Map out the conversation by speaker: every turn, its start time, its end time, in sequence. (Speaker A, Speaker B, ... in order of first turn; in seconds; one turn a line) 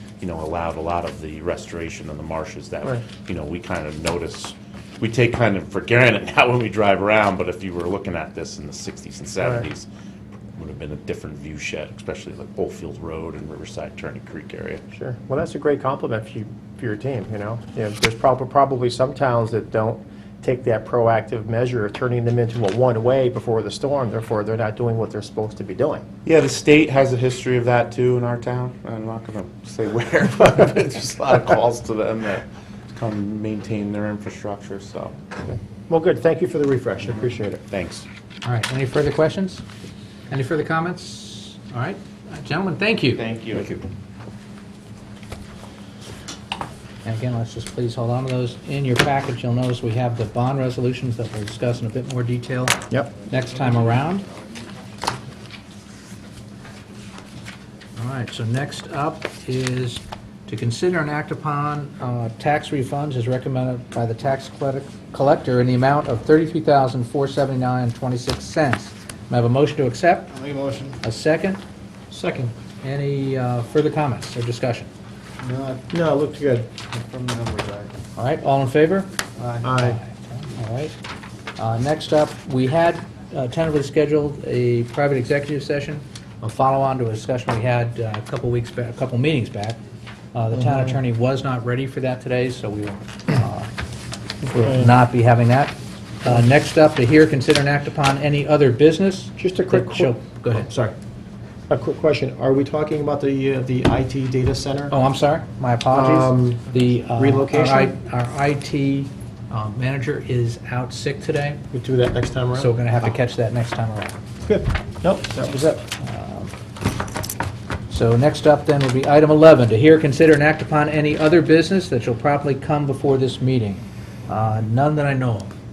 Speaker A: 0.2-9.9
Speaker A: 10.5-14.8
Speaker B: 14.9-26.1
Speaker A: 26.2-35.2
Speaker B: 35.5-37.6
Speaker A: 37.7-38.1
Speaker C: 38.4-39.6
Speaker C: 40.3-43.2
Speaker A: 43.2-43.8
Speaker C: 47.0-54.3
Speaker C: 58.0-70.3
Speaker D: 70.3-71.0
Speaker C: 71.0-71.6
Speaker B: 72.1-72.5
Speaker C: 72.8-74.9
Speaker D: 75.4-75.9
Speaker B: 75.9-76.7
Speaker D: 76.9-77.9
Speaker C: 78.2-79.1
Speaker D: 79.4-79.8
Speaker B: 79.6-80.0
Speaker C: 79.8-81.0
Speaker C: 81.6-89.8
Speaker C: 90.3-93.7
Speaker C: 94.4-100.7
Speaker B: 99.4-101.0
Speaker B: 101.7-104.9
Speaker C: 104.9-111.7
Speaker B: 105.9-107.9
Speaker B: 111.7-112.7
Speaker C: 112.5-114.2
Speaker B: 114.4-115.9
Speaker C: 116.0-116.5
Speaker C: 117.9-125.5